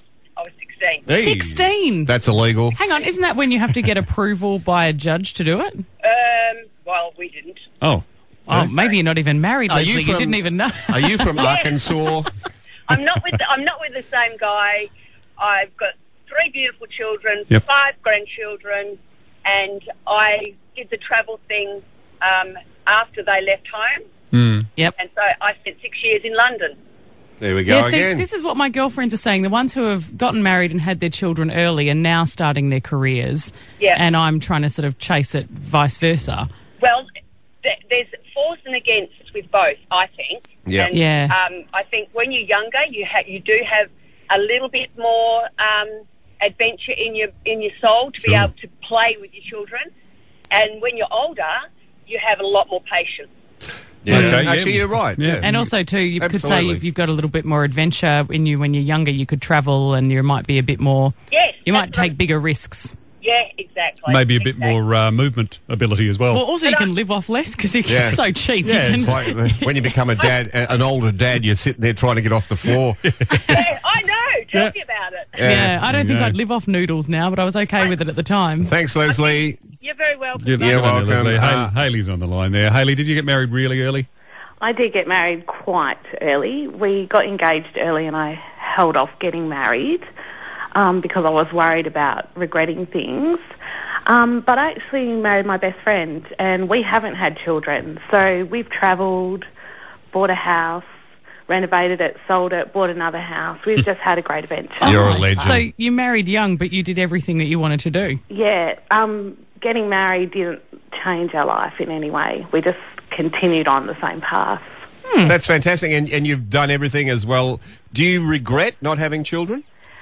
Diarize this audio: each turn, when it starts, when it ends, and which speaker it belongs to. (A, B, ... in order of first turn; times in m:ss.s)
0:00.4-0:01.1 A
0:01.1-0:01.4 B
0:01.1-0:02.8 C
0:01.1-0:02.2 D
0:02.7-0:05.8 D
0:06.0-0:07.6 A
0:07.8-0:08.7 B
0:08.5-0:11.5 D
0:09.7-0:12.3 C
0:11.4-0:11.8 A
0:12.9-0:24.0 A
0:24.3-0:24.7 B
0:25.0-0:26.8 A
0:27.4-0:28.2 C
0:27.7-0:36.5 D
0:36.8-0:37.1 A
0:37.6-0:49.9 A
0:40.7-0:40.9 C
0:40.9-0:41.3 D
0:48.2-0:48.5 B
0:50.5-0:53.3 A
0:54.0-0:55.5 C
0:54.1-0:55.7 B
0:55.4-1:02.9 D
0:56.2-0:56.8 C
1:01.3-1:02.1 A
1:03.2-1:04.8 A
1:04.1-1:06.5 B
1:06.3-1:09.8 D
1:06.6-1:06.9 A
1:07.8-1:08.2 C
1:08.6-1:09.1 B
1:09.0-1:13.0 C
1:13.1-1:13.7 B
1:13.5-1:15.4 A
1:15.4-1:15.8 C
1:15.4-1:16.4 B
1:15.4-1:18.7 D
1:18.6-1:19.6 C
1:19.1-1:20.8 A
1:20.4-1:24.1 B
1:20.6-1:21.7 C
1:24.6-1:30.1 E
1:30.7-1:33.4 E
1:34.1-1:39.5 E
1:40.1-1:40.9 E
1:41.5-1:45.6 E
1:44.8-1:45.6 C
1:44.8-1:48.2 D
1:48.3-1:54.7 E
1:55.1-1:55.4 D
1:55.2-1:59.6 C